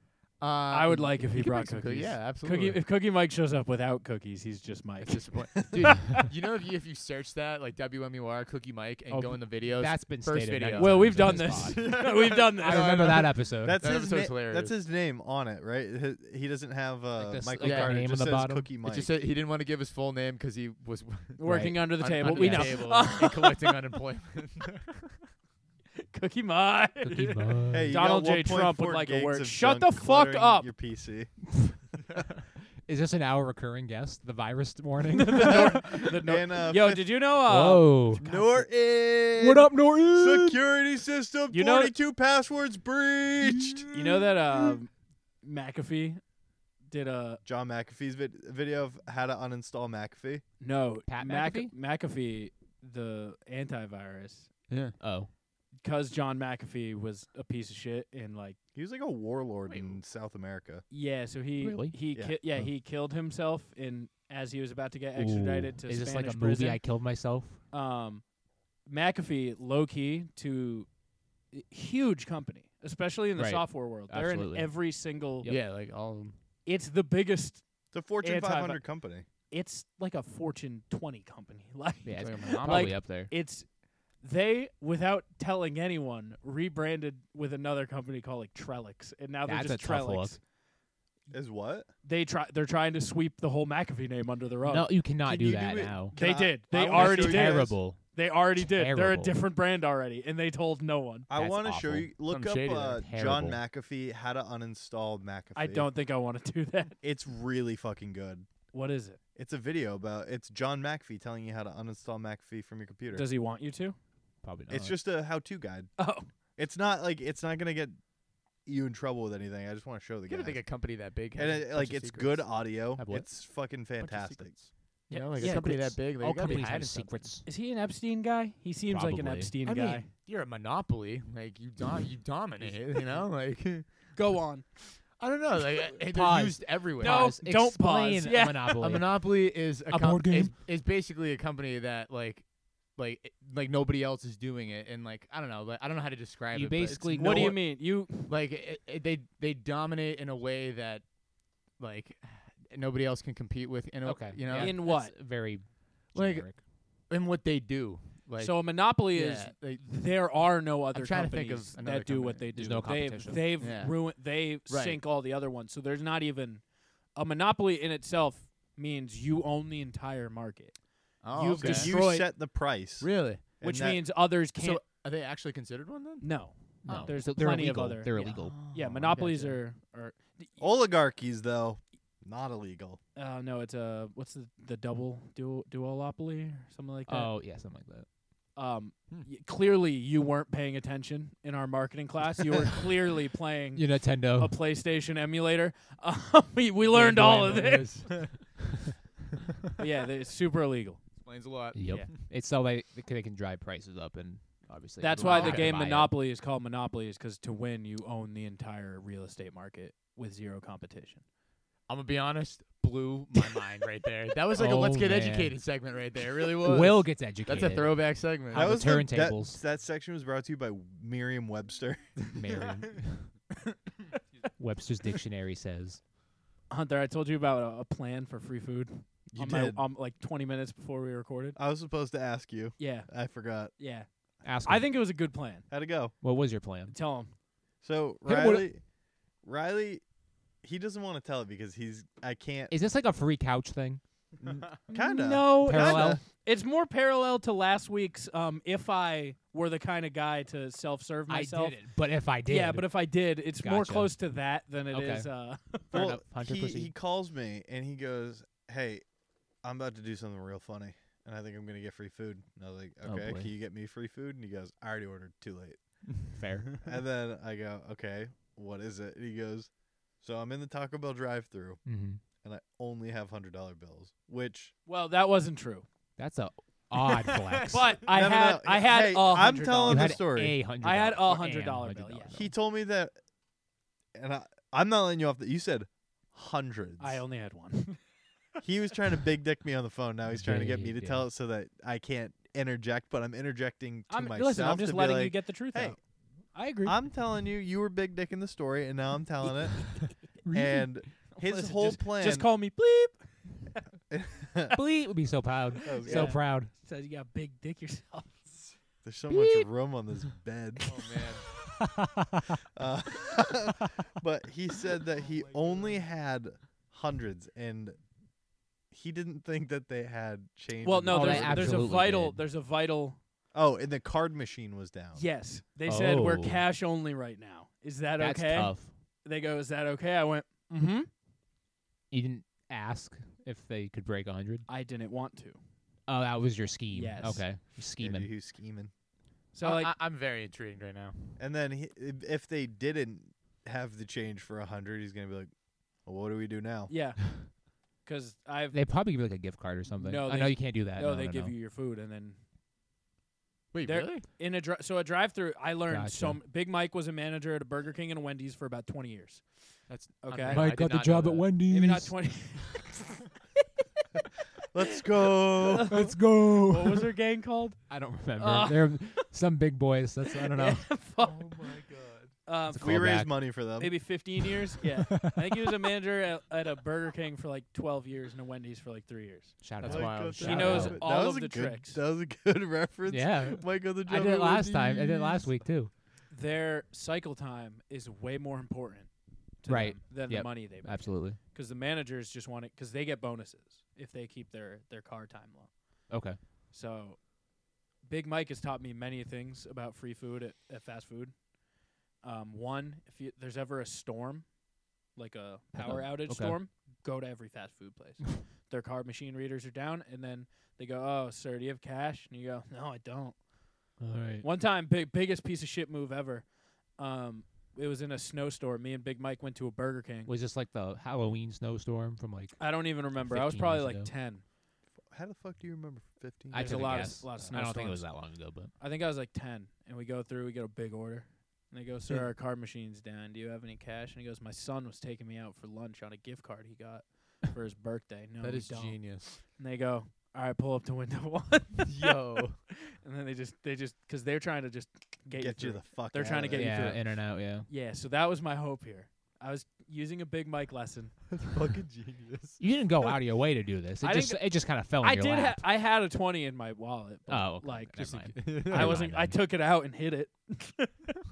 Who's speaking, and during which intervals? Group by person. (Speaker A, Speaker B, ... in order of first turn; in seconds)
Speaker A: 0.4-2.8, 5.0-14.7, 17.6-18.0, 18.8-25.1, 54.7-55.0, 59.7-60.0, 75.5-76.4, 82.2-83.1, 102.3-103.1, 120.3-122.5, 124.0-127.1, 129.6-133.9, 135.2-137.3, 138.8-151.1, 151.7-154.9, 156.1-159.9, 160.9-162.5, 163.6-165.0, 171.2-171.9, 173.0-173.4, 174.6-176.3, 176.8-177.1, 178.1-179.6, 196.9-198.8, 201.2-202.1, 205.2-205.8, 211.9-218.7, 277.2-277.9, 310.8-311.4, 339.6-341.4, 353.7-354.2, 359.9-361.5, 371.4-372.3, 379.8-381.0, 438.4-439.3, 441.8-442.6, 451.3-452.6, 458.0-459.1
Speaker B: 0.7-6.2, 10.8-13.3, 21.4-23.8, 26.1-30.7, 35.1-38.6, 39.4-40.5, 41.5-41.9, 43.9-46.2, 46.9-47.4, 50.6-54.5, 55.8-58.6, 60.9-66.8, 67.7-68.2, 68.8-70.9, 71.5-75.5, 76.7-78.8, 79.5-83.7, 84.2-90.4, 92.0-94.9, 96.1-101.3, 105.5-107.0, 108.7-109.2, 113.1-114.0, 116.0-116.3, 125.1-126.0, 127.4-130.1, 134.1-134.7, 137.0-138.8, 146.9-148.3, 154.5-155.1, 158.4-172.3, 173.6-174.8, 176.2-180.6, 183.2-187.3, 188.6-198.2, 199.8-201.0, 205.0-211.2, 226.7-231.6, 232.8-233.1, 233.8-234.1, 234.6-235.7, 236.9-237.3, 244.9-251.8, 252.4-255.9, 274.9-275.8, 277.7-280.2, 280.8-282.4, 287.0-288.0, 294.1-296.0, 296.5-297.0, 301.4-303.8, 305.9-308.7, 320.8-323.2, 325.1-331.1, 334.7-335.6, 336.9-337.4, 339.5-339.9, 346.9-348.8, 350.0-352.4, 353.8-359.4, 360.2-360.7, 361.7-363.2, 365.5-369.2, 370.3-371.5, 372.4-379.6, 380.4-382.0, 386.3-389.1, 389.6-395.7, 396.7-397.3, 398.0-401.4, 402.2-404.5, 405.1-413.4, 414.4-420.3, 422.6-424.4, 426.5-451.2, 454.0-461.1
Speaker C: 9.1-13.8, 17.2-18.7, 21.5-22.9, 27.0-27.9, 32.9-36.0, 37.5-38.2, 39.4-40.5, 51.1-51.7, 55.0-55.3, 61.6-62.0, 65.2-67.6, 73.3-74.7, 82.0-83.3, 89.5-90.4, 94.6-96.2, 96.8-99.4, 101.3-102.1, 103.0-103.6, 114.4-115.0, 123.0-123.3, 125.4-127.5, 128.9-129.6, 136.1-140.5, 146.5-147.6, 154.0-156.6, 162.5-163.5, 176.8-178.7, 187.1-188.1, 193.7-194.5, 201.7-206.1, 214.5-215.6, 216.6-219.6, 222.3-223.3, 224.6-226.0, 234.4-234.9, 236.2-236.9, 238.2-238.7, 242.7-244.0, 245.6-246.2, 251.3-252.9, 253.6-254.1, 254.9-255.3, 255.9-256.9, 263.0-263.5, 266.3-266.7, 271.8-272.2, 276.2-277.9, 279.9-282.4, 290.3-291.3, 300.4-300.9, 304.7-306.7, 309.3-309.7, 311.8-312.5, 321.1-322.4, 325.9-326.6, 328.2-328.9, 332.1-334.6, 336.1-338.3, 348.7-351.5, 355.9-356.4, 360.5-362.1, 365.9-367.1, 367.9-370.9, 372.7-373.4, 375.1-375.8, 379.6-381.0, 383.1-385.9, 389.7-391.4, 396.1-396.4, 405.8-406.6, 414.0-414.4, 420.2-424.1, 426.5-428.7, 446.5-447.7, 452.6-455.6, 457.3-459.4
Speaker D: 13.6-19.1, 27.7-31.3, 35.5-37.2, 38.2-43.9, 47.4-50.4, 58.7-60.8, 77.9-79.2, 91.3-91.9, 95.2-97.8, 101.3-105.9, 107.0-108.5, 109.3-113.2, 114.7-115.9, 116.6-118.0, 118.7-120.7, 121.3-124.5, 171.6-174.0, 180.6-183.0, 218.5-222.0, 229.3-229.8, 231.6-233.7, 235.7-236.1, 237.8-238.8, 239.4-240.0, 240.6-242.7, 244.4-246.2, 255.9-259.0, 259.6-265.9, 266.8-269.7, 270.2-271.8, 272.4-274.7, 278.1-280.6, 282.3-283.1, 284.1-287.2, 288.6-296.0, 296.8-299.9, 300.5-302.5, 304.1-304.8, 305.8-306.4, 309.0-310.9, 312.8-318.0, 318.9-321.9, 323.5-325.2, 338.0-338.9, 341.4-345.5, 346.0-346.9, 364.7-365.9, 372.8-374.0, 379.8-385.5, 425.1-427.2, 445.3-447.0